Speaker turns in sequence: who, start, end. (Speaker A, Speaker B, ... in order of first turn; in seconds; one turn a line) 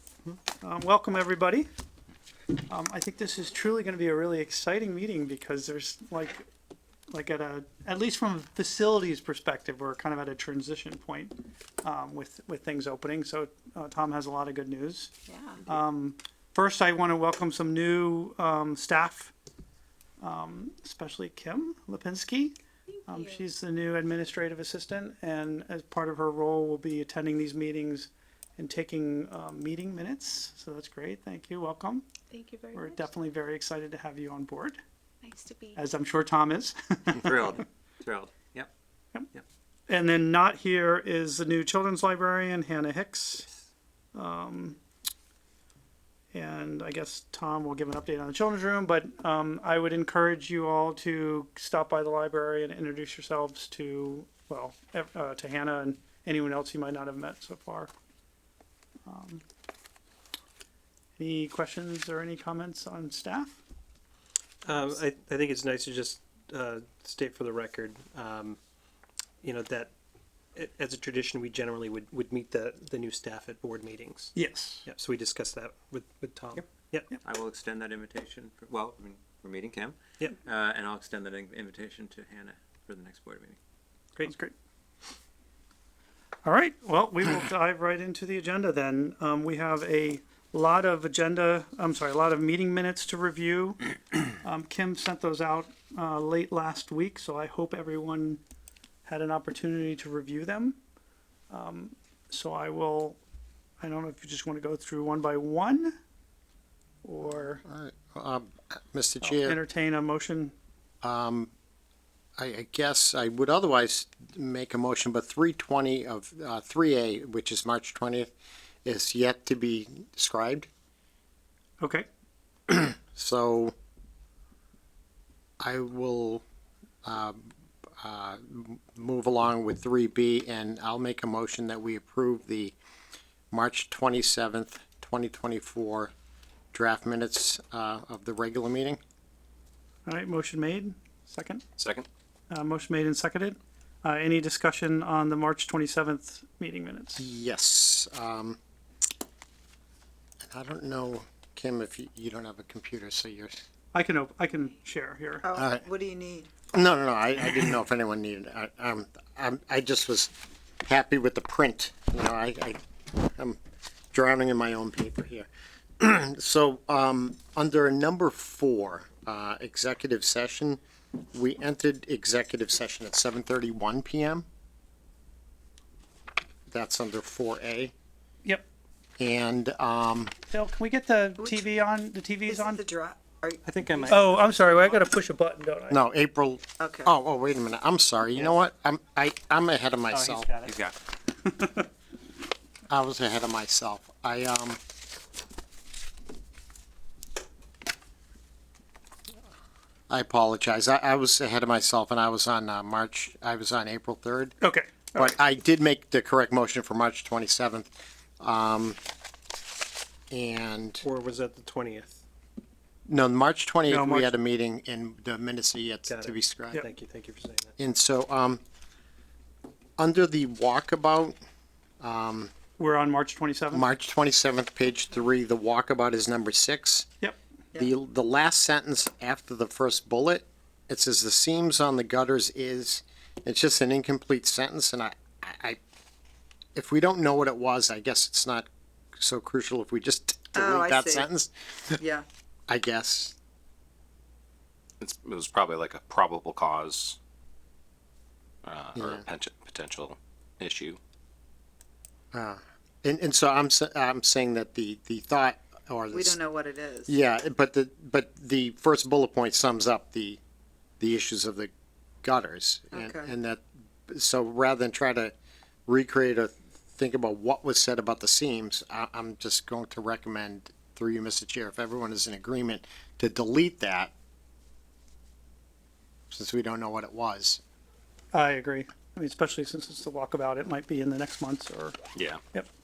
Speaker A: 0.6-1.7
Speaker A: 2.7-6.5
Speaker A: 7.1-15.1
Speaker B: 15.3-15.6
Speaker A: 15.7-19.3
Speaker A: 20.2-22.5
Speaker B: 22.9-23.3
Speaker A: 23.1-32.1
Speaker B: 32.3-33.1
Speaker A: 32.7-34.8
Speaker B: 35.2-35.8
Speaker A: 35.7-37.6
Speaker C: 37.2-38.7
Speaker A: 39.9-43.5
Speaker A: 44.1-44.8
Speaker A: 46.3-57.9
Speaker A: 59.0-59.4
Speaker A: 61.2-63.6
Speaker D: 64.6-68.6
Speaker D: 69.4-69.9
Speaker D: 70.5-77.1
Speaker A: 74.3-74.8
Speaker C: 77.2-83.6
Speaker A: 84.2-84.5
Speaker A: 86.4-98.4
Speaker A: 99.0-100.8
Speaker A: 101.5-103.2
Speaker A: 103.8-105.9
Speaker A: 107.0-107.6
Speaker E: 107.6-109.6
Speaker A: 109.2-110.5
Speaker E: 111.0-111.5
Speaker E: 112.4-118.3
Speaker E: 118.8-120.7
Speaker A: 121.8-122.1
Speaker E: 122.7-123.7
Speaker E: 125.6-126.4
Speaker E: 127.0-127.5
Speaker E: 128.0-132.7
Speaker E: 133.5-136.1
Speaker E: 136.7-139.0
Speaker A: 140.1-141.6
Speaker F: 141.8-142.1
Speaker A: 142.5-147.2
Speaker E: 147.2-148.6
Speaker E: 150.5-153.6
Speaker A: 153.9-155.4
Speaker G: 155.4-156.5
Speaker E: 155.5-155.8
Speaker E: 156.7-160.3
Speaker E: 160.8-163.6
Speaker E: 164.1-170.8
Speaker E: 171.3-174.4
Speaker E: 176.7-177.9
Speaker E: 179.2-180.3
Speaker A: 180.5-182.8
Speaker G: 182.5-184.2
Speaker D: 183.6-184.9
Speaker A: 184.1-186.0
Speaker E: 185.9-190.5
Speaker G: 186.8-187.1
Speaker D: 190.1-190.8
Speaker C: 190.7-190.9
Speaker E: 192.9-194.8
Speaker E: 200.1-204.5
Speaker A: 204.6-205.3
Speaker E: 205.1-207.9
Speaker E: 208.4-209.0
Speaker E: 210.3-211.0
Speaker D: 211.0-212.2
Speaker E: 213.1-216.9
Speaker A: 213.9-214.3
Speaker D: 216.1-217.7
Speaker E: 217.8-218.6
Speaker E: 220.0-221.4
Speaker E: 222.0-222.5
Speaker A: 222.8-223.9
Speaker E: 223.7-227.1
Speaker E: 227.7-235.8
Speaker E: 236.7-242.0
Speaker G: 240.5-241.3
Speaker G: 242.0-242.2
Speaker E: 242.7-243.3
Speaker F: 245.0-247.2
Speaker F: 248.6-251.0
Speaker E: 248.9-249.2
Speaker E: 252.3-256.4
Speaker G: 256.1-257.2
Speaker E: 257.1-260.4
Speaker E: 261.0-261.7
Speaker E: 262.2-265.3
Speaker G: 262.9-263.3
Speaker E: 265.9-274.1
Speaker E: 276.3-277.6
Speaker A: 278.3-281.9